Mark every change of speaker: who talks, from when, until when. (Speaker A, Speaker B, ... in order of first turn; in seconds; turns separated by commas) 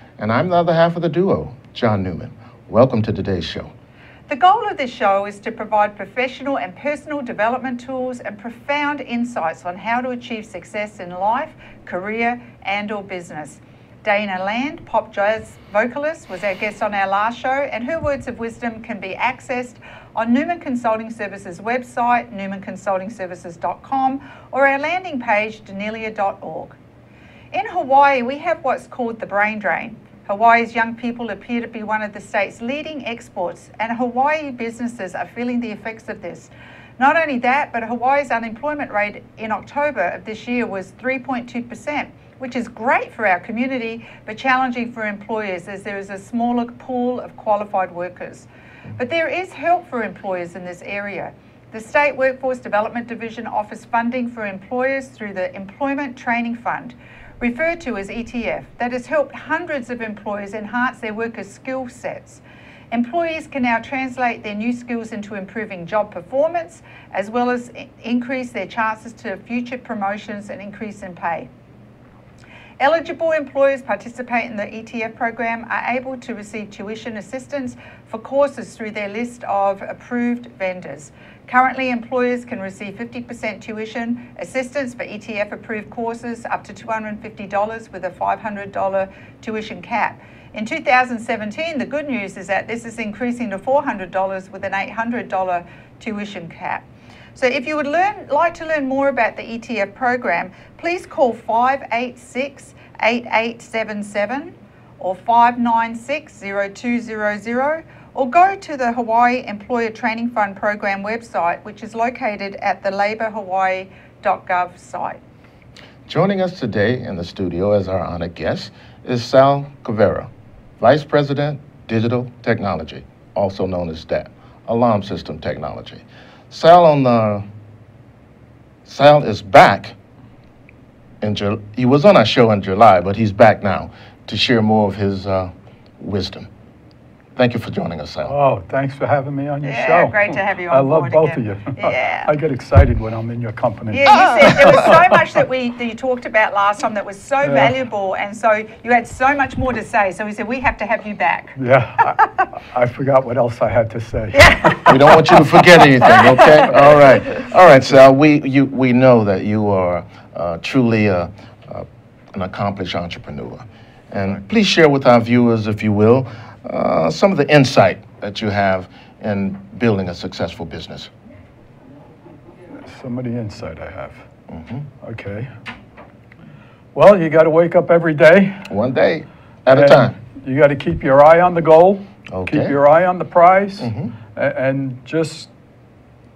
Speaker A: 0.2-3.7, Speaker B: 4.3-26.8, Speaker B: 27.5-71.5, Speaker B: 72.8-115.2, Speaker A: 116.1-127.5, Speaker A: 128.8-129.9, Speaker A: 131.2-136.5, Speaker A: 137.4-138.3, Speaker C: 138.2-145.1, Speaker B: 139.6-142.3, Speaker B: 143.9-151.6, Speaker C: 147.4-147.7, Speaker C: 151.6-154.9, Speaker B: 154.3-155.4, Speaker A: 154.9-171.1, Speaker B: 156.0-156.7, Speaker C: 172.8-174.3, Speaker A: 174.5-174.9, Speaker C: 175.0-175.5, Speaker C: 176.9-178.7, Speaker A: 178.7-180.2, Speaker C: 179.7-185.5, Speaker A: 182.3-182.8, Speaker A: 183.8-184.1